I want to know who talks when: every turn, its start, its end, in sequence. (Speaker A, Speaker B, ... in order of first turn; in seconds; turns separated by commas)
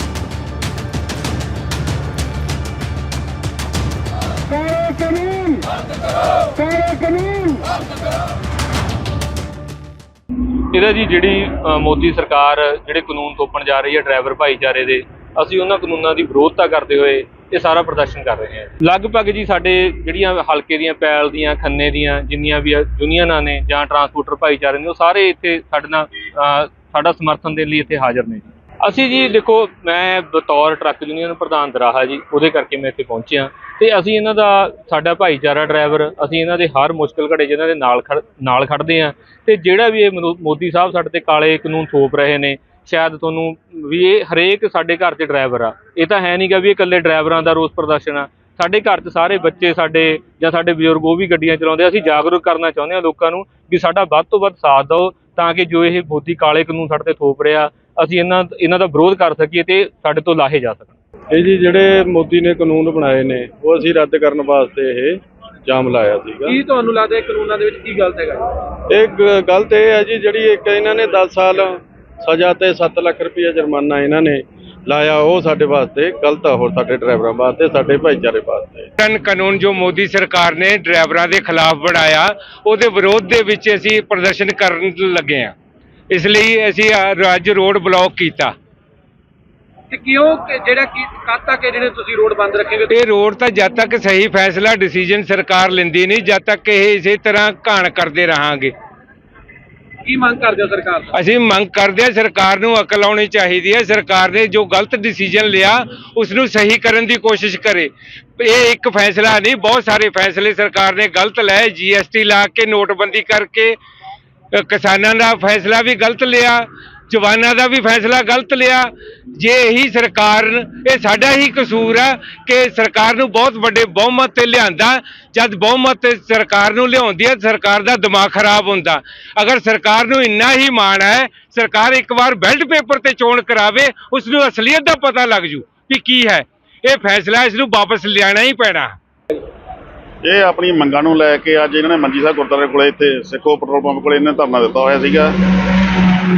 Speaker A: 4.6-5.6, Speaker A: 6.6-7.6, Speaker B: 10.4-60.9, Speaker C: 61.3-66.6, Speaker D: 66.5-68.4, Speaker C: 68.9-78.9, Speaker E: 79.0-85.5, Speaker E: 86.1-88.5, Speaker D: 89.9-92.9, Speaker E: 92.9-98.7, Speaker D: 100.0-101.1, Speaker E: 101.1-113.8, Speaker E: 114.5-138.9, Speaker F: 140.2-145.6